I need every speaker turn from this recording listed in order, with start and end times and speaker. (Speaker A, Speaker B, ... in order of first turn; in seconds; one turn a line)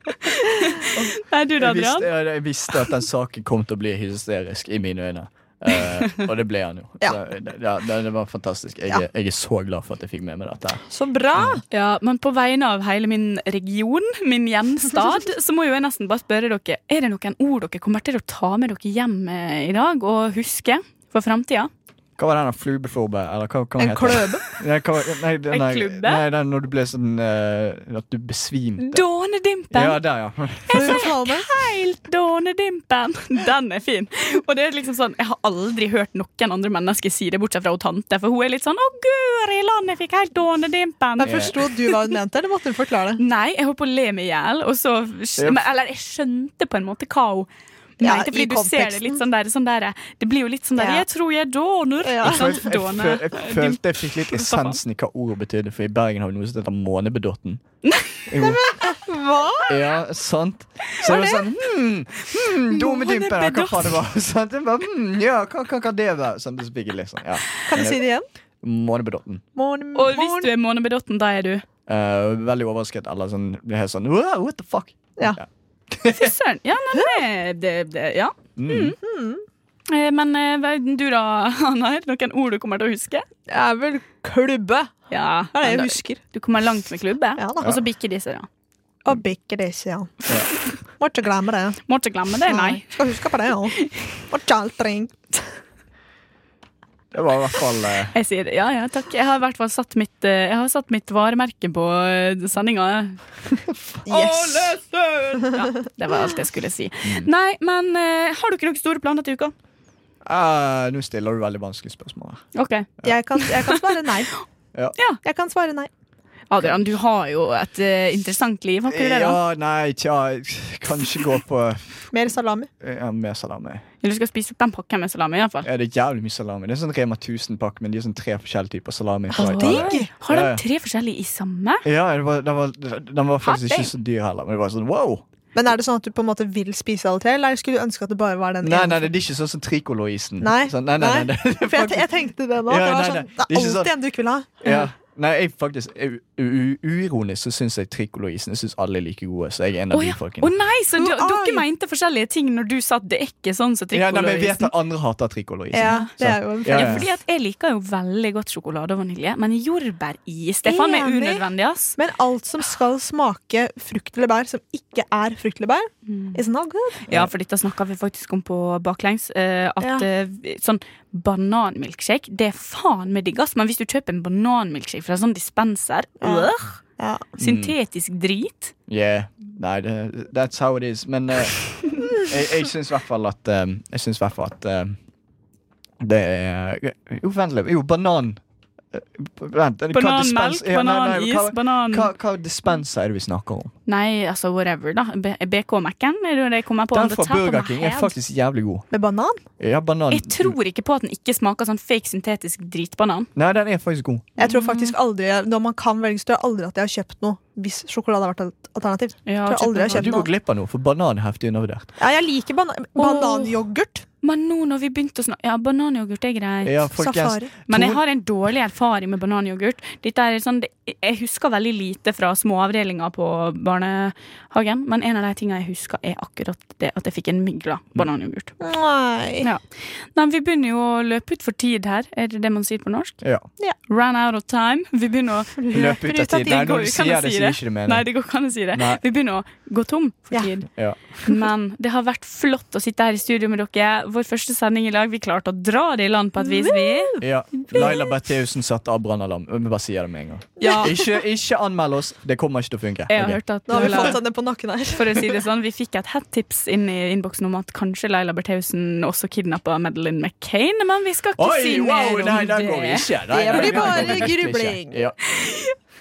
Speaker A: 0.2-2.1
Speaker B: 1.6-10.8
Speaker C: 10.9-11.6
Speaker B: 11.3-11.6
Speaker A: 11.7-21.7
Speaker B: 22.2-29.0
Speaker C: 23.8-24.4
Speaker A: 25.5-26.2
Speaker A: 28.8-30.0
Speaker B: 29.7-31.0
Speaker A: 30.7-41.9
Speaker C: 30.7-31.5
Speaker C: 41.2-43.2
Speaker B: 41.2-41.5
Speaker A: 43.2-47.5
Speaker A: 48.0-54.8
Speaker C: 48.0-49.2
Speaker C: 50.8-51.0
Speaker C: 52.0-52.6
Speaker B: 52.2-57.6
Speaker A: 57.8-58.1
Speaker B: 58.2-58.6
Speaker C: 58.4-59.8
Speaker B: 59.7-68.0
Speaker C: 61.0-61.4
Speaker A: 62.7-64.0
Speaker C: 67.7-68.2
Speaker B: 68.6-69.4
Speaker C: 69.5-70.5
Speaker A: 69.9-71.6
Speaker B: 71.9-76.3
Speaker A: 76.1-79.0
Speaker B: 78.6-79.0
Speaker C: 79.0-79.4
Speaker A: 79.9-83.2
Speaker C: 83.5-84.9
Speaker A: 85.1-88.5
Speaker C: 85.5-86.2
Speaker C: 87.4-87.7
Speaker C: 89.0-90.2
Speaker C: 91.0-91.8
Speaker A: 91.9-92.9
Speaker C: 92.5-93.8
Speaker A: 93.8-94.0
Speaker C: 94.3-95.3
Speaker B: 97.1-98.1
Speaker A: 98.1-103.2
Speaker B: 103.7-104.0
Speaker C: 104.0-104.7
Speaker A: 104.0-109.5
Speaker B: 110.2-112.4
Speaker A: 112.5-113.8
Speaker C: 113.0-114.3
Speaker C: 115.2-115.9
Speaker A: 116.5-119.4
Speaker B: 118.9-122.1
Speaker C: 122.1-122.7
Speaker B: 122.8-123.8
Speaker A: 124.0-125.7
Speaker B: 125.6-130.6
Speaker A: 129.3-131.8
Speaker C: 129.4-130.1
Speaker B: 131.8-135.2
Speaker A: 133.4-133.9
Speaker C: 135.5-139.1
Speaker B: 138.6-142.1
Speaker C: 140.4-144.8
Speaker B: 142.6-143.9
Speaker B: 144.6-150.5
Speaker A: 149.9-154.7
Speaker C: 150.9-151.6
Speaker B: 153.9-157.1
Speaker C: 155.7-157.1
Speaker A: 155.7-156.1
Speaker A: 156.6-162.0
Speaker C: 160.6-161.4
Speaker C: 162.0-167.1
Speaker A: 166.1-166.4
Speaker A: 167.1-176.8
Speaker C: 169.8-170.1
Speaker C: 176.2-177.3
Speaker A: 177.4-178.7
Speaker B: 177.4-177.7
Speaker B: 178.9-185.0
Speaker B: 186.0-188.4
Speaker B: 188.9-193.7
Speaker A: 189.9-192.1
Speaker A: 193.9-198.1
Speaker B: 196.9-198.9
Speaker C: 198.9-199.4
Speaker B: 199.6-200.6
Speaker A: 200.1-203.3
Speaker B: 203.3-204.3
Speaker C: 204.3-210.2
Speaker A: 204.4-204.9
Speaker A: 209.2-210.2
Speaker B: 209.9-211.9
Speaker C: 212.0-214.0
Speaker A: 212.9-213.5
Speaker A: 214.2-217.0
Speaker B: 216.6-218.0
Speaker C: 217.0-217.5
Speaker A: 217.7-228.5
Speaker C: 228.6-229.5
Speaker A: 230.1-233.2
Speaker B: 233.2-233.5
Speaker A: 233.9-240.7
Speaker B: 235.7-238.1
Speaker B: 238.7-239.0
Speaker B: 240.7-241.0
Speaker A: 241.2-247.9
Speaker C: 246.4-247.2
Speaker B: 247.2-253.9
Speaker A: 250.6-251.0
Speaker C: 250.6-250.9
Speaker A: 253.1-254.2
Speaker C: 253.7-255.3
Speaker A: 254.9-264.3
Speaker B: 261.4-265.3
Speaker C: 263.3-265.0
Speaker A: 265.4-265.7